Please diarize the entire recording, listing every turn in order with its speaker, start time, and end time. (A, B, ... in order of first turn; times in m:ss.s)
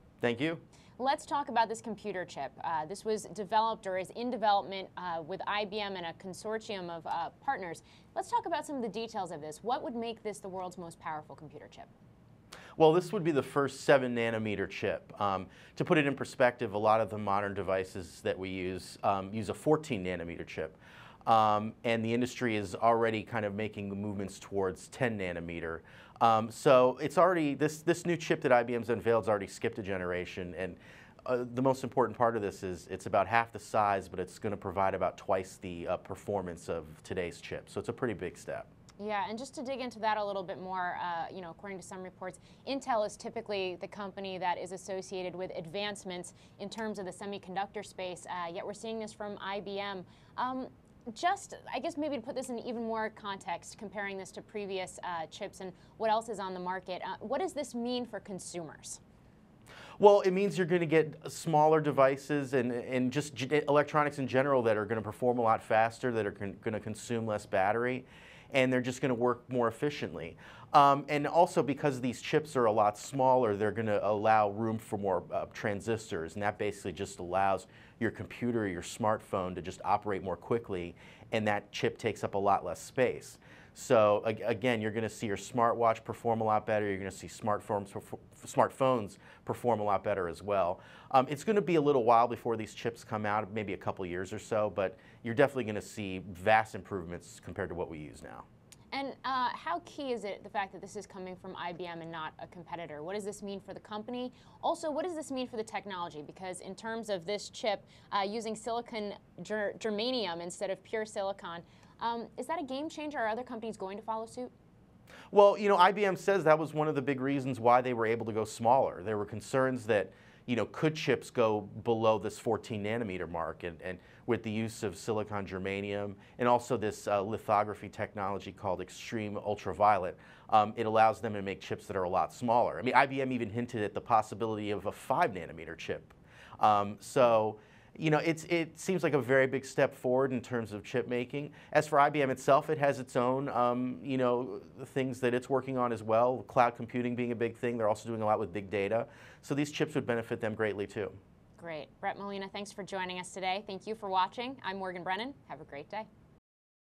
0:00.2-0:00.6 A
0:01.0-0:11.9 B
0:12.8-0:38.7 A
0:39.0-0:59.0 B
1:00.0-1:38.4 A
1:38.9-1:54.5 B
1:55.3-2:31.2 A
2:31.6-2:36.1 B